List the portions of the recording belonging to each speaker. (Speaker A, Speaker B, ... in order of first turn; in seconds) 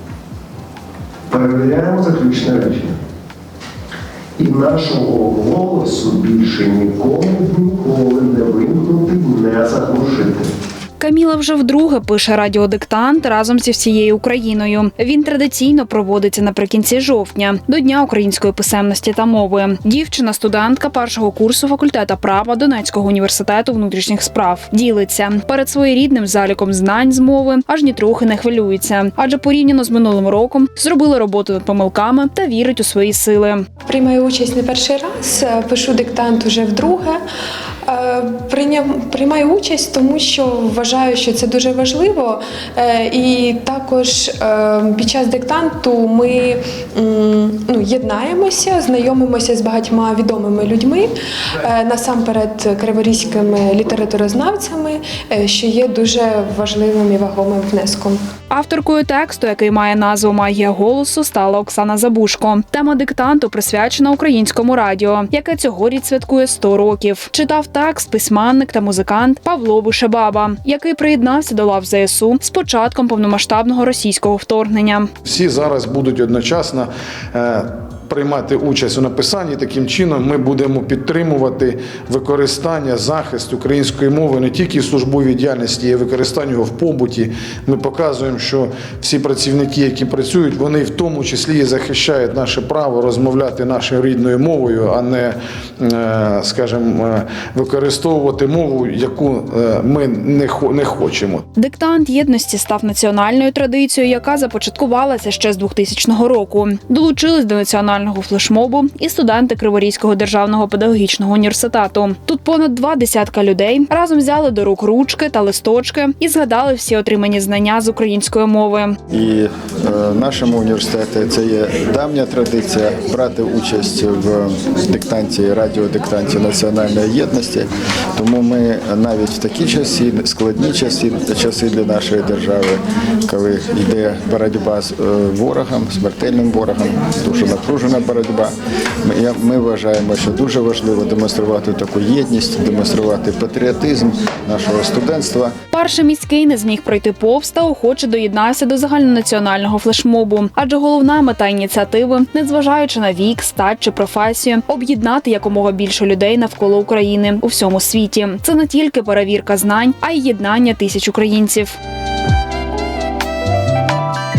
Speaker A: 1.3-3.0, 4.4-10.5
Speaker B: 11.0-33.6, 58.5-75.1, 101.6-119.0, 145.7-161.8
Speaker C: 33.9-37.2, 37.9-58.2
Speaker D: 75.3-101.5
Speaker E: 119.1-138.5, 139.0-145.5